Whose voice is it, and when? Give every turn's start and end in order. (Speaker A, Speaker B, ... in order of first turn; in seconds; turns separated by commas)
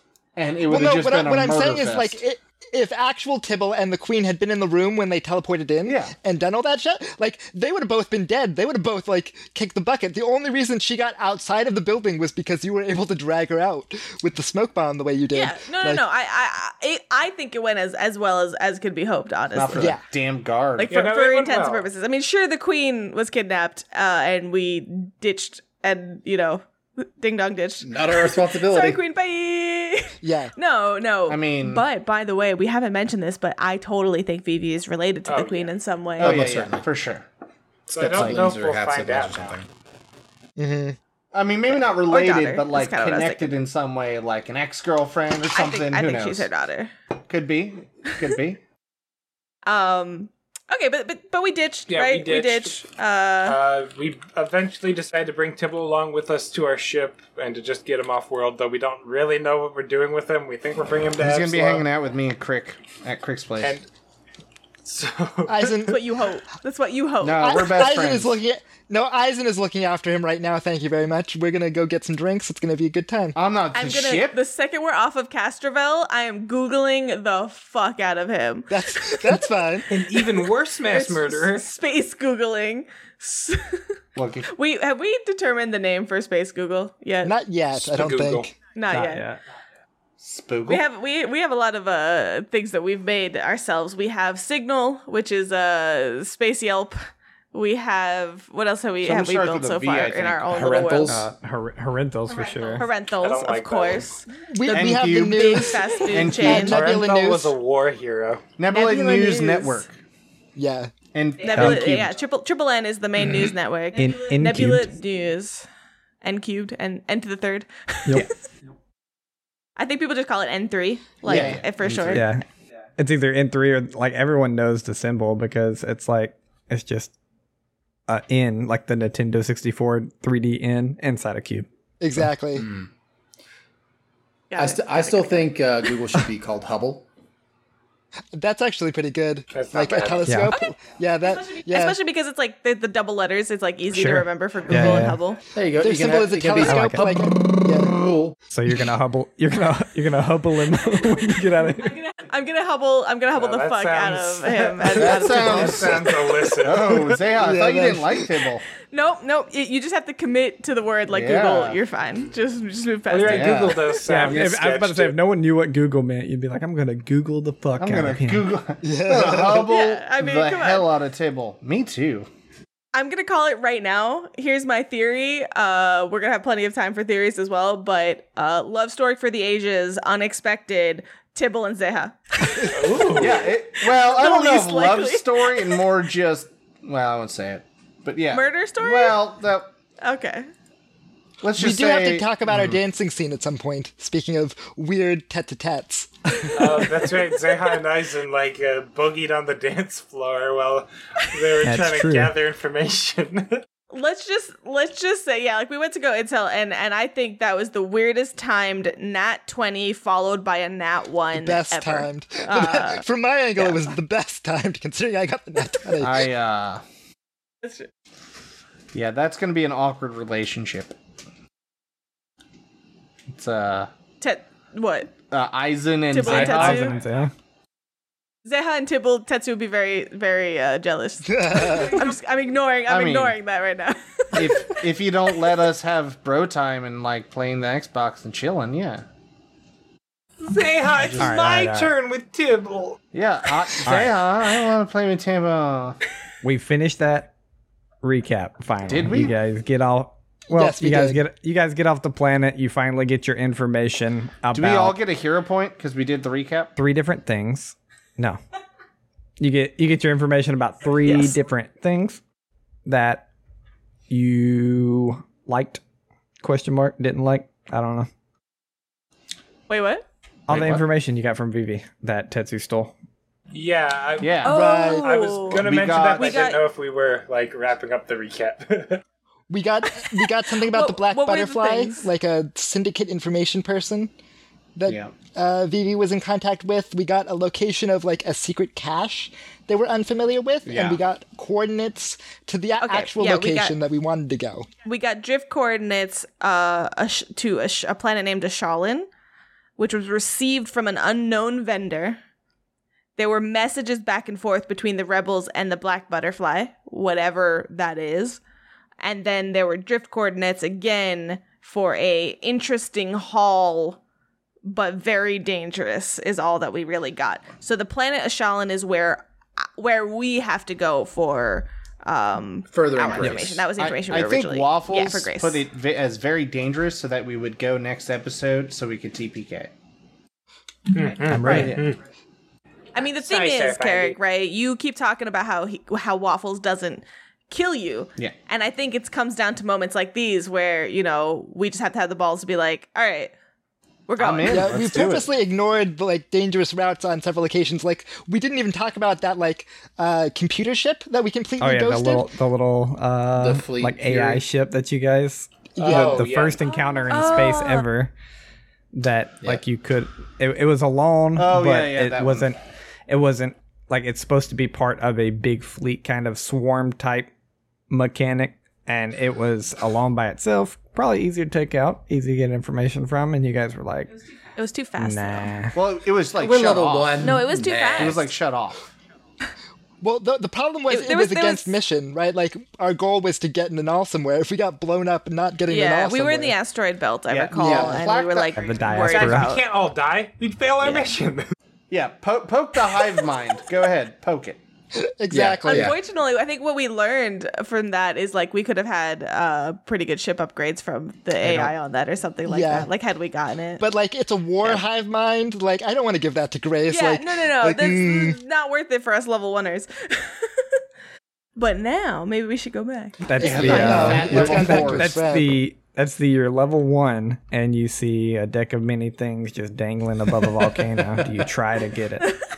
Speaker A: 0.4-2.2, Speaker B: 0.7-16.0, Speaker A: 5.9-6.1, Speaker C: 15.3-20.0, Speaker A: 19.6-21.0, Speaker B: 19.8-20.0, Speaker C: 20.8-36.4, Speaker D: 20.9-21.9, Speaker E: 27.8-29.0, Speaker B: 30.2-30.5, Speaker A: 31.3-31.9, Speaker D: 35.3-35.7, Speaker A: 36.2-37.2, Speaker E: 36.2-36.8, Speaker E: 37.9-39.7, Speaker D: 37.9-39.6, Speaker A: 38.1-38.5, Speaker B: 40.6-41.0, Speaker A: 41.3-46.5, Speaker C: 41.7-43.5, Speaker C: 45.5-46.9, Speaker A: 47.3-48.6, Speaker C: 49.6-53.6, Speaker D: 51.9-52.8, Speaker D: 53.5-61.9, Speaker A: 61.2-63.8, Speaker D: 63.6-63.9, Speaker D: 64.8-66.0, Speaker B: 65.5-66.0, Speaker C: 65.9-67.9, Speaker A: 67.2-68.4, Speaker B: 67.4-73.4, Speaker A: 73.3-74.4, Speaker C: 73.7-79.4, Speaker B: 78.7-79.9, Speaker D: 79.9-81.6, Speaker C: 80.9-83.8, Speaker A: 84.1-84.5, Speaker C: 84.5-87.4, Speaker B: 87.2-88.5, Speaker D: 87.7-88.5, Speaker C: 88.7-89.2, Speaker F: 88.9-89.4, Speaker A: 90.2-90.8, Speaker C: 90.7-97.0, Speaker C: 97.5-101.2, Speaker A: 99.0-101.3, Speaker E: 100.5-101.2, Speaker F: 101.0-102.9, Speaker C: 102.7-107.0, Speaker D: 102.8-104.1, Speaker B: 104.5-107.5, Speaker A: 104.7-106.9, Speaker D: 106.5-108.5, Speaker A: 108.6-110.0, Speaker C: 108.7-109.8, Speaker B: 110.5-110.9, Speaker A: 111.1-112.1, Speaker C: 111.4-115.7, Speaker F: 111.5-111.9, Speaker F: 114.0-114.9, Speaker C: 116.2-118.3, Speaker C: 119.8-122.3, Speaker A: 121.2-122.3, Speaker F: 122.1-122.4, Speaker F: 123.0-127.1, Speaker F: 128.1-131.7, Speaker B: 132.0-132.7, Speaker E: 132.6-132.9, Speaker C: 134.5-135.5, Speaker E: 134.6-137.1, Speaker B: 138.3-142.0, Speaker D: 139.5-140.3, Speaker F: 140.2-140.5, Speaker C: 141.5-145.4, Speaker F: 143.9-145.2, Speaker E: 145.5-148.4, Speaker B: 145.8-147.9, Speaker F: 146.6-147.2, Speaker F: 148.5-152.0, Speaker C: 151.8-155.9, Speaker D: 153.3-157.1, Speaker A: 154.9-158.6, Speaker B: 155.2-155.9, Speaker B: 157.2-158.3, Speaker C: 158.9-164.0, Speaker A: 161.1-161.8, Speaker D: 163.1-165.1, Speaker A: 163.2-164.5, Speaker F: 164.0-168.5, Speaker A: 167.8-172.3, Speaker B: 168.8-169.7, Speaker C: 169.5-170.9, Speaker C: 172.9-185.8, Speaker D: 182.6-183.5, Speaker A: 183.1-189.7, Speaker C: 188.3-189.2, Speaker C: 190.0-190.5, Speaker A: 191.4-192.8, Speaker B: 191.6-197.1, Speaker D: 196.5-203.6, Speaker F: 201.6-202.3, Speaker C: 203.9-213.0, Speaker B: 211.3-216.3, Speaker A: 215.9-216.8, Speaker A: 218.9-220.9, Speaker A: 223.3-223.9, Speaker C: 224.2-225.1, Speaker A: 225.3-227.0, Speaker C: 226.1-226.9, Speaker F: 226.2-227.3, Speaker C: 228.4-234.8, Speaker B: 231.2-232.0, Speaker A: 232.9-233.4, Speaker A: 234.3-239.0, Speaker D: 240.4-243.0, Speaker A: 240.9-241.3, Speaker F: 241.2-241.9, Speaker A: 243.1-246.0, Speaker F: 243.9-244.2, Speaker F: 246.4-247.3, Speaker F: 248.0-255.0, Speaker A: 248.8-249.3, Speaker B: 250.5-251.2, Speaker A: 254.5-256.7, Speaker F: 256.8-258.4, Speaker F: 259.4-262.2, Speaker C: 261.1-261.4, Speaker F: 262.9-263.2, Speaker F: 264.1-265.8, Speaker F: 266.4-268.1, Speaker C: 269.7-270.1, Speaker F: 270.5-272.9, Speaker A: 270.5-270.8, Speaker D: 273.5-279.0, Speaker A: 274.2-274.7, Speaker C: 274.4-276.6, Speaker B: 274.5-275.1, Speaker A: 275.5-276.5, Speaker B: 279.5-284.1, Speaker C: 280.0-282.1, Speaker B: 284.8-294.7, Speaker A: 284.9-285.1, Speaker A: 290.6-291.0, Speaker C: 292.8-293.8, Speaker C: 294.8-299.1, Speaker C: 299.8-302.2, Speaker C: 303.2-308.4, Speaker C: 309.0-314.0, Speaker C: 314.6-325.6, Speaker E: 322.7-323.6, Speaker A: 323.8-329.7, Speaker D: 330.9-332.0, Speaker F: 331.3-331.8, Speaker A: 331.4-331.9, Speaker C: 332.9-343.3, Speaker D: 333.1-334.2, Speaker C: 344.1-344.9, Speaker A: 344.2-345.3, Speaker B: 344.5-352.3, Speaker F: 351.6-358.1, Speaker E: 353.4-354.4, Speaker B: 355.8-356.3, Speaker D: 355.8-356.7, Speaker C: 357.1-357.9, Speaker F: 358.9-362.6, Speaker A: 361.4-362.5, Speaker F: 363.1-367.3, Speaker F: 367.9-374.1, Speaker C: 374.6-375.5, Speaker F: 375.0-375.8, Speaker A: 375.7-377.4, Speaker E: 376.4-378.3, Speaker C: 377.2-378.3, Speaker A: 377.9-378.9, Speaker B: 380.0-386.6, Speaker C: 380.9-381.8, Speaker C: 385.7-389.6, Speaker A: 387.3-388.7, Speaker B: 387.6-388.1, Speaker F: 388.6-389.5, Speaker D: 389.0-391.5, Speaker C: 390.8-391.1, Speaker A: 391.9-394.6, Speaker B: 394.9-395.9, Speaker E: 395.3-395.9, Speaker C: 395.6-403.8, Speaker F: 401.4-401.7, Speaker B: 402.4-402.9, Speaker B: 403.8-408.4, Speaker C: 406.9-410.8, Speaker C: 411.6-414.1, Speaker F: 413.2-422.3, Speaker A: 413.4-415.1, Speaker B: 413.4-415.6